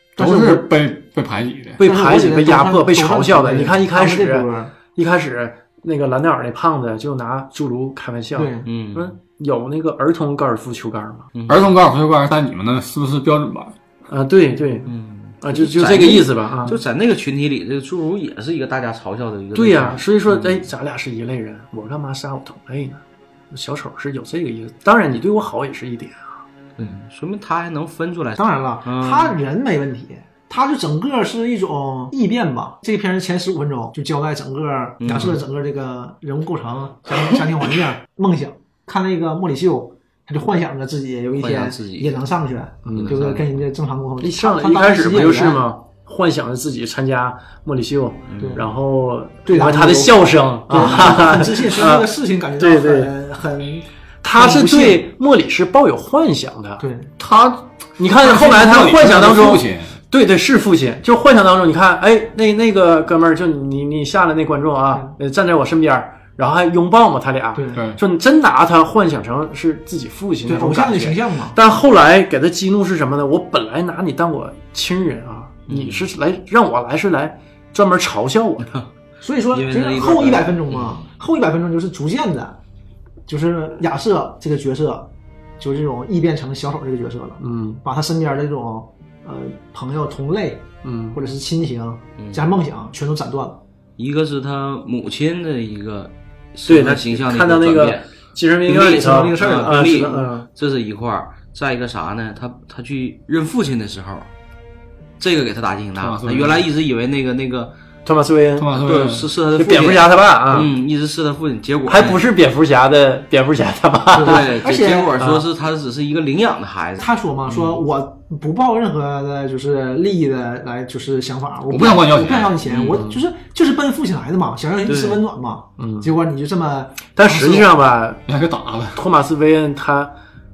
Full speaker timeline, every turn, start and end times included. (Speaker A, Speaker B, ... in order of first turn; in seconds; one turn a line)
Speaker A: 0.2-0.7
Speaker B: 0.2-1.8
Speaker C: 1.8-11.3
Speaker A: 1.8-4.7
Speaker A: 8.3-8.7
Speaker D: 8.6-9.2
Speaker D: 11.3-11.7
Speaker B: 11.5-13.7
Speaker C: 14.1-16.8
Speaker D: 14.8-20.6
Speaker C: 19.5-26.3
Speaker D: 26.8-29.4
Speaker A: 28.4-45.6
Speaker D: 35.0-35.4
Speaker D: 41.4-42.1
Speaker C: 42.8-43.2
Speaker D: 42.9-43.5
Speaker C: 44.2-53.1
Speaker D: 48.3-48.6
Speaker A: 48.4-48.7
Speaker A: 49.4-55.1
Speaker C: 54.2-56.8
Speaker A: 56.8-57.1
Speaker B: 57.2-60.0
Speaker C: 58.0-78.7
Speaker A: 67.5-67.9
Speaker B: 67.7-68.0
Speaker A: 70.5-71.5
Speaker D: 75.7-76.1
Speaker A: 79.2-82.6
Speaker D: 79.5-81.0
Speaker A: 83.3-93.6
Speaker C: 87.4-87.8
Speaker C: 90.8-91.2
Speaker D: 92.2-92.5
Speaker D: 94.0-98.1
Speaker C: 96.7-100.5
Speaker D: 98.7-104.3
Speaker A: 98.7-100.2
Speaker D: 105.2-107.7
Speaker B: 106.0-106.6
Speaker C: 108.0-108.7
Speaker B: 108.5-109.3
Speaker D: 108.8-112.2
Speaker C: 109.5-110.7
Speaker C: 111.8-114.5
Speaker D: 114.1-117.8
Speaker A: 114.1-115.1
Speaker C: 115.2-115.4
Speaker A: 117.0-127.7
Speaker B: 121.7-122.5
Speaker D: 122.7-123.0
Speaker C: 122.8-123.2
Speaker D: 124.8-125.2
Speaker C: 125.8-126.1
Speaker C: 127.2-128.2
Speaker B: 128.2-129.0
Speaker C: 128.9-130.1